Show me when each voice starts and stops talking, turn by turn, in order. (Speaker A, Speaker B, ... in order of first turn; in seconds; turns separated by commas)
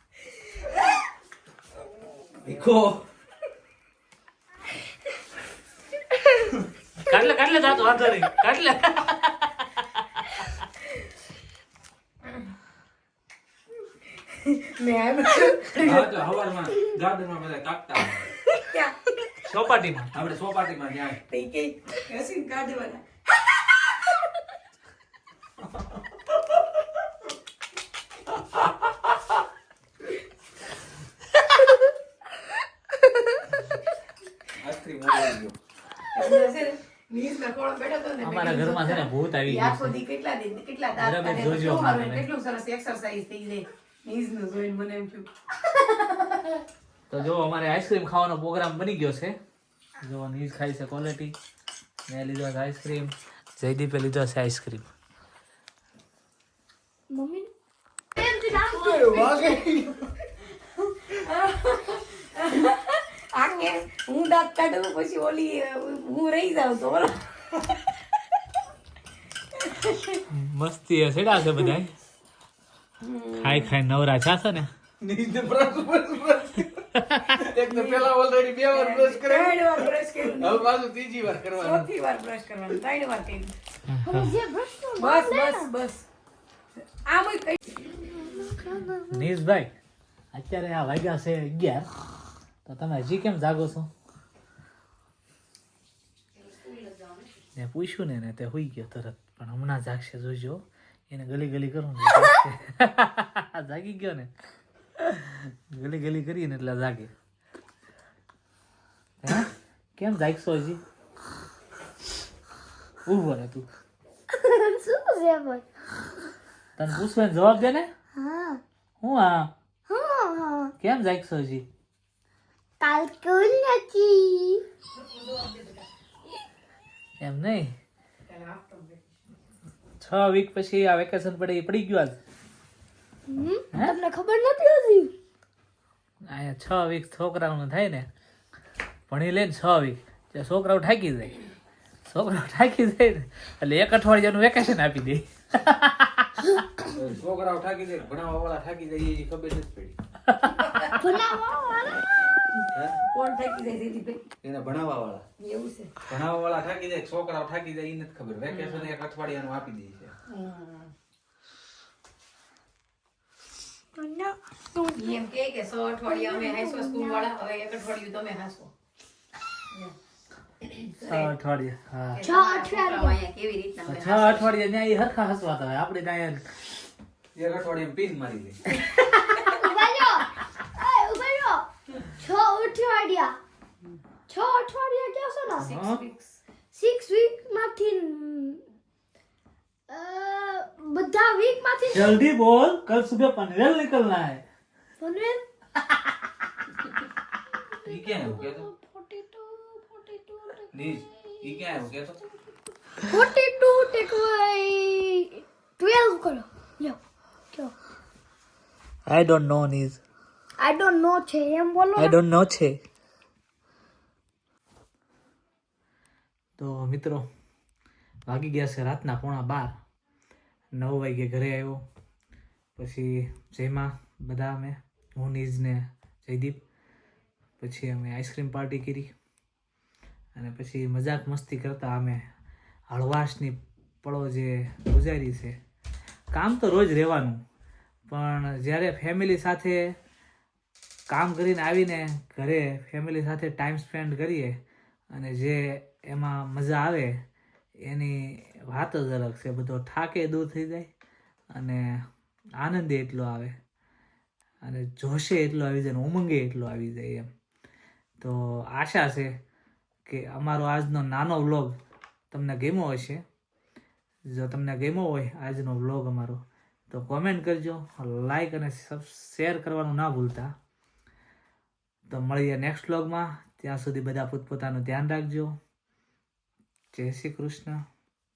Speaker A: 2.4-3.1, Speaker B: 7.0-10.3, Speaker C: 14.4-16.1, Speaker A: 15.8-18.3, Speaker C: 18.5-18.9, Speaker B: 19.4-20.1, Speaker A: 20.1-21.2, Speaker C: 21.3-23.0, Speaker A: 34.6-35.6, Speaker C: 36.1-45.3, Speaker B: 38.2-40.0, Speaker B: 41.0-42.3, Speaker B: 47.1-49.4, Speaker B: 50.0-51.4, Speaker B: 52.1-54.9, Speaker D: 57.1-57.5, Speaker D: 58.2-59.6, Speaker A: 58.6-60.0, Speaker C: 61.1-67.2, Speaker C: 69.6-70.2, Speaker B: 70.3-72.0, Speaker C: 73.0-73.7, Speaker B: 73.4-74.7, Speaker A: 75.0-81.9, Speaker B: 77.0-77.4, Speaker C: 77.6-78.1, Speaker C: 78.7-80.7, Speaker C: 81.6-83.5, Speaker B: 83.9-84.3, Speaker D: 84.0-85.7, Speaker C: 85.0-86.0, Speaker C: 87.0-87.7, Speaker D: 88.0-89.2, Speaker B: 89.1-89.7, Speaker B: 90.3-91.9, Speaker B: 92.7-93.9, Speaker C: 96.4-97.3, Speaker B: 97.6-104.3, Speaker B: 105.0-107.1, Speaker B: 109.2-110.8, Speaker B: 113.1-113.7, Speaker D: 114.3-115.7, Speaker B: 116.8-117.9, Speaker D: 118.2-118.6, Speaker B: 119.0-119.5, Speaker D: 119.9-120.7, Speaker B: 120.8-121.6, Speaker D: 122.8-124.6, Speaker C: 125.0-125.8, Speaker B: 127.2-127.8, Speaker C: 128.3-129.1, Speaker B: 130.0-132.2, Speaker D: 133.3-135.1, Speaker B: 136.3-138.1, Speaker B: 139.1-141.4, Speaker B: 142.1-146.3, Speaker A: 146.9-150.0, Speaker C: 150.6-150.9, Speaker D: 150.9-152.0, Speaker A: 152.7-153.0, Speaker C: 153.1-154.2, Speaker A: 154.4-155.2, Speaker C: 155.4-155.9, Speaker A: 156.1-160.1, Speaker C: 158.5-158.9, Speaker C: 160.3-160.9, Speaker D: 164.0-165.0, Speaker C: 164.9-168.7, Speaker D: 166.1-167.3, Speaker C: 170.7-171.3, Speaker B: 171.0-172.2, Speaker C: 172.2-174.5, Speaker D: 172.2-173.2, Speaker B: 173.9-176.7, Speaker A: 177.3-178.6, Speaker D: 179.4-183.4, Speaker D: 184.3-185.7, Speaker B: 185.6-186.0, Speaker C: 185.6-186.4, Speaker D: 186.7-188.6, Speaker D: 189.9-192.2, Speaker B: 191.9-194.4, Speaker D: 195.0-195.4, Speaker D: 197.8-201.0, Speaker A: 197.8-198.7, Speaker A: 200.7-202.2, Speaker D: 203.1-207.0, Speaker B: 209.1-210.0, Speaker D: 210.6-212.2, Speaker B: 211.9-212.8, Speaker B: 216.6-217.2, Speaker B: 218.2-219.7, Speaker B: 220.7-221.8, Speaker B: 222.8-226.6, Speaker B: 227.6-229.1, Speaker B: 230.3-232.2, Speaker B: 232.9-235.6, Speaker B: 236.3-237.4, Speaker B: 238.1-239.9, Speaker B: 241.1-244.6, Speaker B: 245.1-247.2, Speaker B: 247.8-250.9, Speaker B: 251.5-251.8, Speaker B: 252.6-253.6, Speaker B: 254.6-257.3, Speaker B: 258.2-259.3, Speaker B: 260.1-261.7, Speaker B: 262.3-263.2, Speaker B: 264.3-270.5, Speaker B: 272.1-275.6, Speaker B: 276.9-277.8